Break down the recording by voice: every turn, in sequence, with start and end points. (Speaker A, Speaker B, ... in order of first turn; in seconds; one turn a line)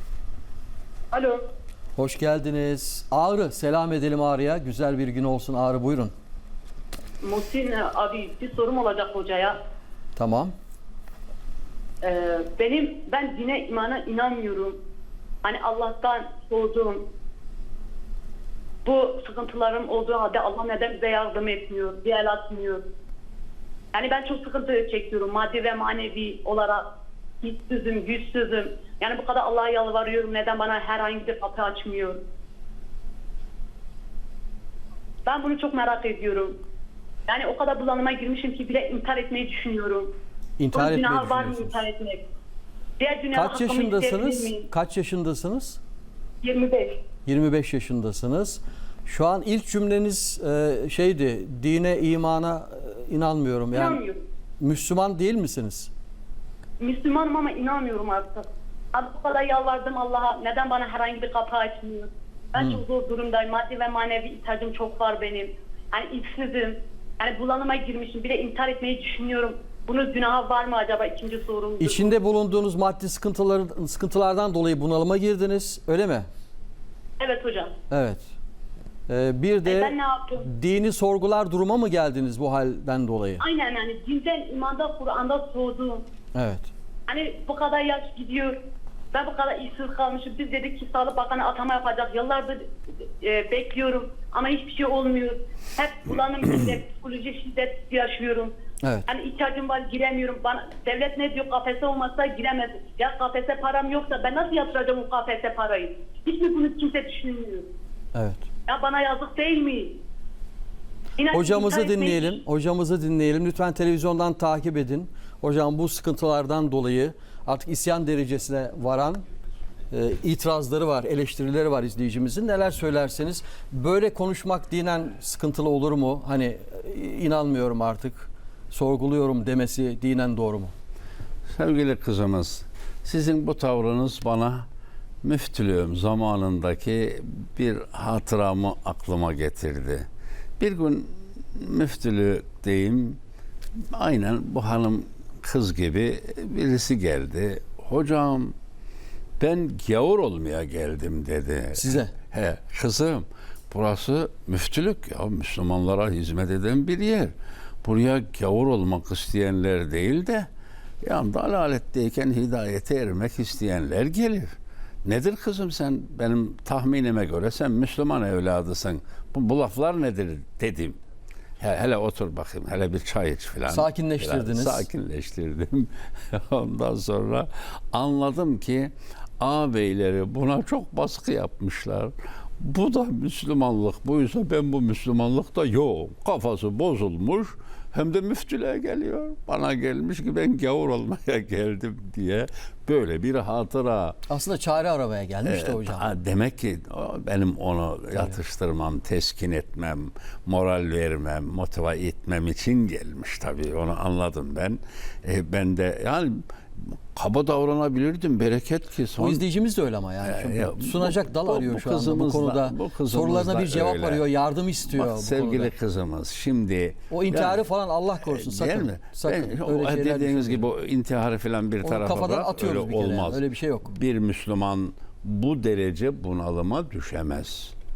Speaker A: 1.1-1.4
Speaker B: 1.9-6.1
Speaker A: 7.2-9.6
Speaker B: 10.1-10.5
Speaker A: 12.0-14.8
Speaker A: 15.4-17.0
Speaker A: 18.8-22.8
Speaker A: 23.9-26.9
Speaker A: 27.4-32.2
Speaker A: 35.2-36.5
Speaker A: 37.3-40.1
Speaker B: 40.6-41.8
Speaker A: 40.7-42.2
Speaker A: 43.0-44.7
Speaker B: 43.3-45.8
Speaker A: 46.4-47.0
Speaker B: 47.2-54.0
Speaker A: 53.7-54.2
Speaker B: 54.6-55.9
Speaker A: 56.8-72.1
Speaker B: 62.6-62.8
Speaker B: 71.8-76.3
Speaker A: 77.2-77.7
Speaker B: 77.9-78.3
Speaker B: 79.1-83.4
Speaker A: 79.6-80.4
Speaker A: 83.4-86.0
Speaker B: 86.3-86.7
Speaker A: 87.1-88.6
Speaker A: 89.1-92.6
Speaker A: 93.2-98.5
Speaker A: 99.1-107.7
Speaker B: 108.1-108.4
Speaker A: 108.7-110.0
Speaker A: 111.2-112.4
Speaker B: 111.3-119.2
Speaker B: 119.9-130.7
Speaker C: 131.5-134.7
Speaker C: 135.2-140.0
Speaker C: 140.6-143.2
Speaker C: 143.9-148.5
Speaker C: 149.4-160.5
Speaker B: 151.8-152.1
Speaker C: 161.0-164.5
Speaker C: 165.0-171.0
Speaker C: 171.6-194.2
Speaker B: 173.7-174.8
Speaker B: 194.3-196.1
Speaker C: 195.4-206.4
Speaker C: 207.1-209.4
Speaker B: 209.2-215.7
Speaker C: 210.2-214.2
Speaker C: 214.9-217.6
Speaker B: 217.1-220.7
Speaker C: 218.2-227.7
Speaker B: 221.8-223.9